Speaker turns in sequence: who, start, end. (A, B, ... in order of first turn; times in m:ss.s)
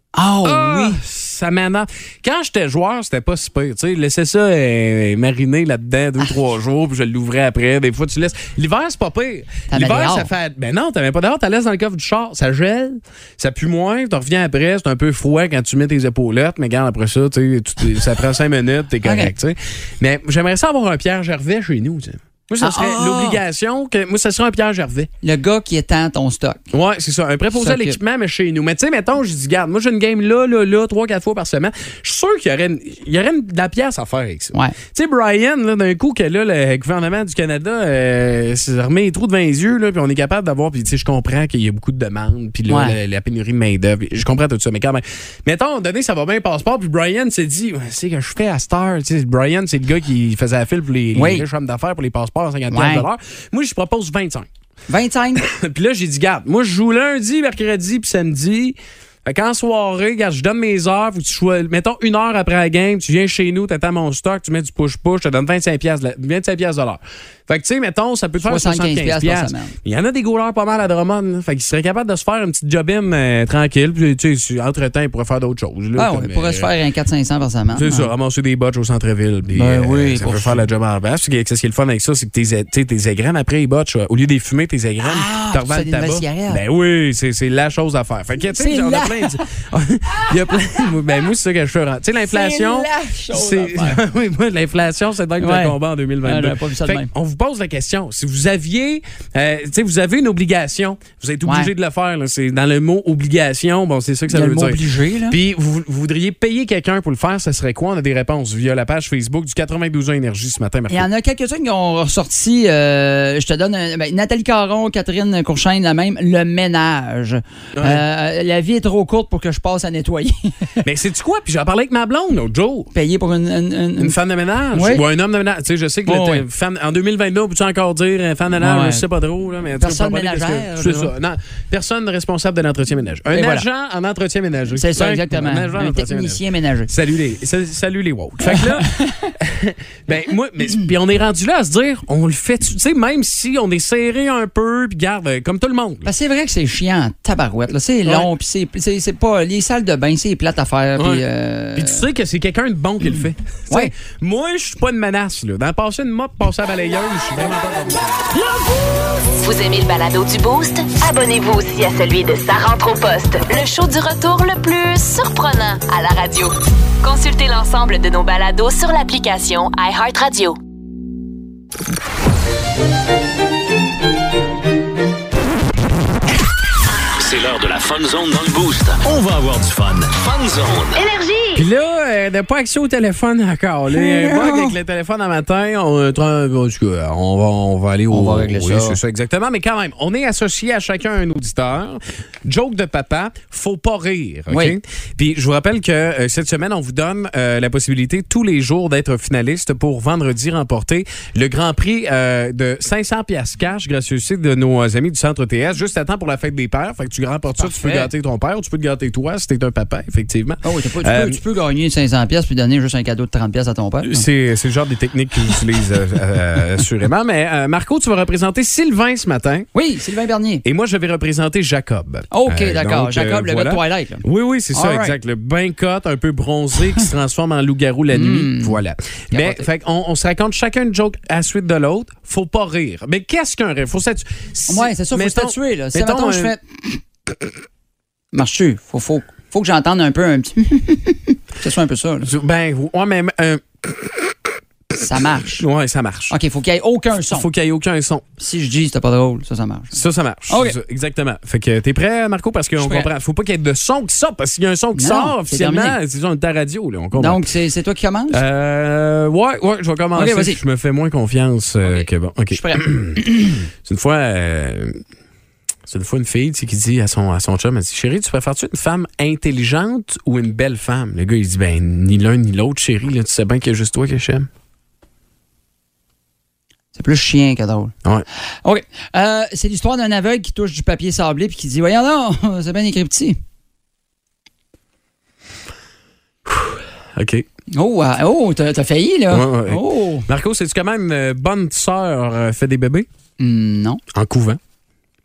0:00.1-0:01.0 A
0:00.4-0:25.1 B
0:09.7-0:10.3 A
0:19.0-0:19.3 A
0:22.6-0:23.4 A
0:25.2-0:26.7 A
0:26.7-0:54.5 B
0:27.5-0:28.0 A
0:42.7-0:43.0 A
0:51.1-0:51.4 A
0:52.7-0:53.1 A
0:54.9-0:55.4 A
0:55.4-1:16.7 B
1:08.4-1:09.8 A
1:16.0-1:18.1 A
1:17.7-1:51.1 B
1:19.5-1:20.6 A
1:25.0-1:26.6 A
1:28.5-1:29.4 A
1:32.2-1:34.0 A
1:35.4-1:37.1 A
1:41.4-1:41.7 A
1:44.3-1:45.4 A
1:50.9-2:00.8 A
1:57.7-1:58.0 B
2:00.8-2:02.9 B
2:02.9-2:04.2 A
2:04.0-2:26.1 B
2:04.7-2:05.0 A
2:06.0-2:06.4 A
2:08.6-2:09.0 A
2:09.8-2:11.1 A
2:13.3-2:13.6 A
2:14.8-2:16.9 A
2:18.4-2:19.3 A
2:26.0-2:32.0 A
2:28.0-2:28.3 B
2:31.0-2:31.2 B
2:31.7-2:38.3 B
2:39.3-2:50.6 C
2:57.2-3:01.0 D
3:01.0-3:01.6 C
3:01.5-3:31.4 B
3:03.9-3:04.7 A
3:08.1-3:09.0 A
3:14.5-3:14.8 A
3:27.6-3:28.1 A
3:30.6-3:34.3 A
3:34.0-3:39.7 B
3:39.7-3:40.6 A
3:40.6-3:56.5 B
3:42.3-3:45.2 A
3:48.1-3:48.8 A
3:49.3-3:49.7 A
3:54.7-3:57.0 A
3:58.3-4:02.3 A
4:02.2-4:04.3 B
4:05.0-4:05.6 A
4:05.6-4:06.3 B
4:06.3-4:07.5 A
4:07.3-4:08.2 B
4:08.4-4:10.8 A
4:09.9-4:17.4 B
4:12.8-4:13.1 A
4:14.9-4:16.0 A
4:17.1-4:18.4 A
4:18.3-4:25.0 B
4:20.1-4:20.6 A
4:21.8-4:23.5 A
4:25.9-4:34.5 B
4:36.9-4:37.9 A
4:38.6-4:43.4 A
4:46.4-4:47.4 B
4:47.7-4:50.3 A
4:49.3-4:53.1 B
4:53.4-4:54.0 A
4:54.1-4:54.6 B